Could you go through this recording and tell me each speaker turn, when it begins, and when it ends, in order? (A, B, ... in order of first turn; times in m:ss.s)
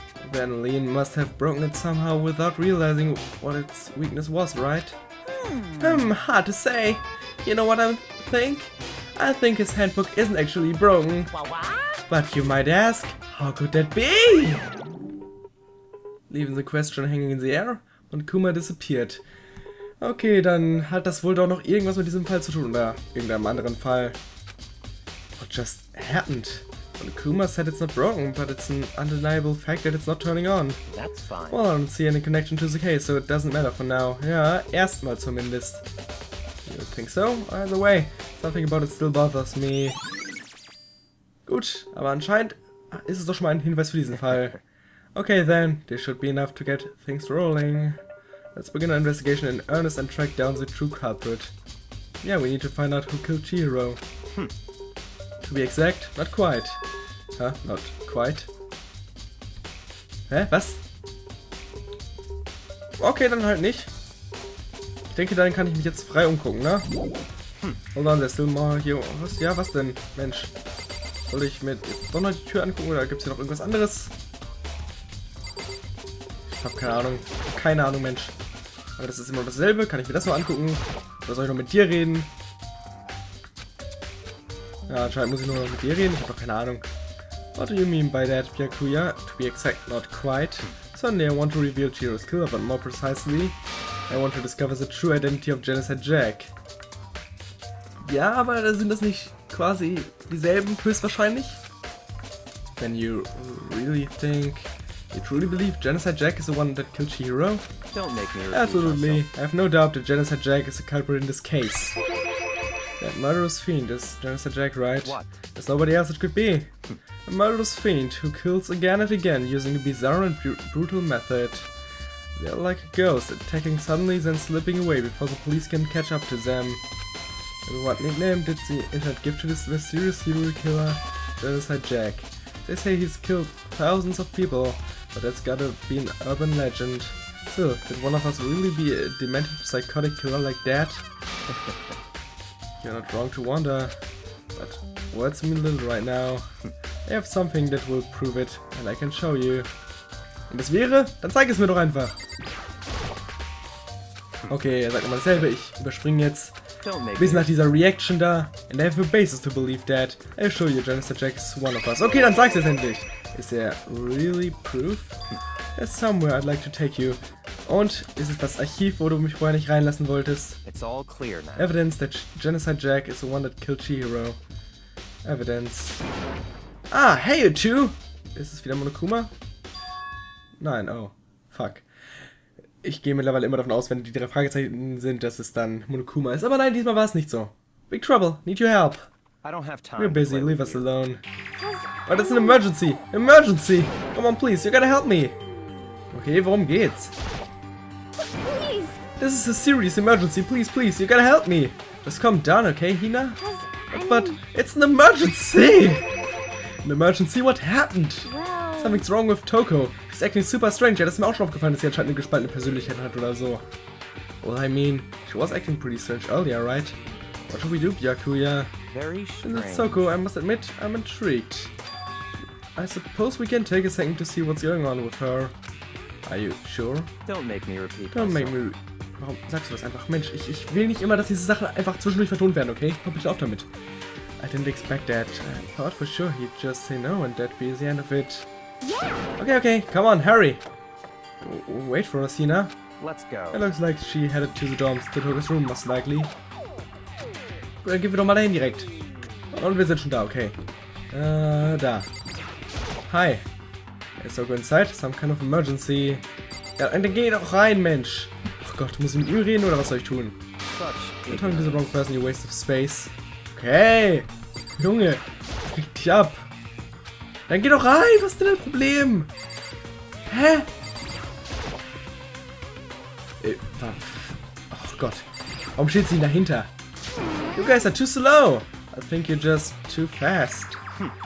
0:00.2-0:05.0 A
0:05.4-0:05.8 B
0:05.8-0:11.3 A
0:11.3-0:12.0 B
0:12.1-0:14.6 A
0:16.3-0:19.2 A
0:20.0-0:24.2 A
0:25.4-0:30.8 A
0:30.9-0:31.6 C
0:31.5-0:35.8 A
0:36.6-0:40.0 A
0:41.4-0:44.6 A
0:45.1-0:48.0 A
0:48.5-0:51.5 A
0:52.2-0:54.0 A
0:55.4-0:56.8 A
0:57.4-0:58.5 A
1:00.3-1:00.8 A
1:03.0-1:03.9 A
1:05.1-1:06.9 A
1:07.9-1:10.5 A
1:11.3-1:14.1 A
1:16.5-1:18.3 A
1:19.0-1:22.3 A
1:24.9-1:26.9 A
1:27.5-1:33.6 A
1:34.1-1:36.5 A
1:38.0-1:41.6 A
1:42.8-1:47.6 A
1:47.9-1:49.3 C
1:48.5-1:52.0 A
1:53.0-1:56.7 A
1:57.3-2:01.7 A
2:02.3-2:06.8 A
2:07.6-2:21.0 A
2:22.8-2:24.0 A
2:24.5-2:26.5 A
2:27.0-2:29.7 A
2:30.5-2:32.2 A
2:34.5-2:36.6 A
2:36.8-2:37.5 C
2:37.2-2:45.2 A
2:45.8-2:50.6 A
2:50.6-2:51.8 C
2:51.6-2:54.4 A
2:55.2-2:56.0 A
2:56.9-2:59.3 A
3:00.6-3:01.8 A
3:02.8-3:09.1 A
3:09.4-3:10.9 C
3:10.0-3:11.2 A
3:11.6-3:12.6 B
3:12.0-3:15.4 A
3:16.1-3:17.1 A
3:18.2-3:19.0 B
3:19.2-3:23.4 A
3:23.4-3:24.4 B
3:23.9-3:26.0 A
3:26.8-3:33.6 A
3:28.2-3:29.0 B
3:34.4-3:37.0 A
3:37.5-3:38.7 A
3:38.9-3:40.1 C
3:39.4-3:41.7 A
3:42.8-3:45.5 A
3:46.2-3:47.1 A
3:47.2-3:48.6 C
3:48.1-3:53.7 A
3:54.4-3:58.5 A
3:58.8-3:59.2 B
3:59.4-4:00.6 A
4:01.4-4:02.7 A
4:03.0-4:03.6 C
4:03.5-4:06.3 A
4:07.8-4:08.9 A
4:09.5-4:10.6 A
4:11.1-4:12.1 A
4:13.1-4:13.4 A
4:14.2-4:16.2 A
4:16.8-4:20.4 A
4:20.6-4:22.0 C
4:21.3-4:24.3 A
4:24.8-4:26.4 A
4:27.5-4:29.3 A
4:30.3-4:30.7 A
4:33.4-4:36.7 A
4:37.2-4:37.7 B
4:37.5-4:40.8 A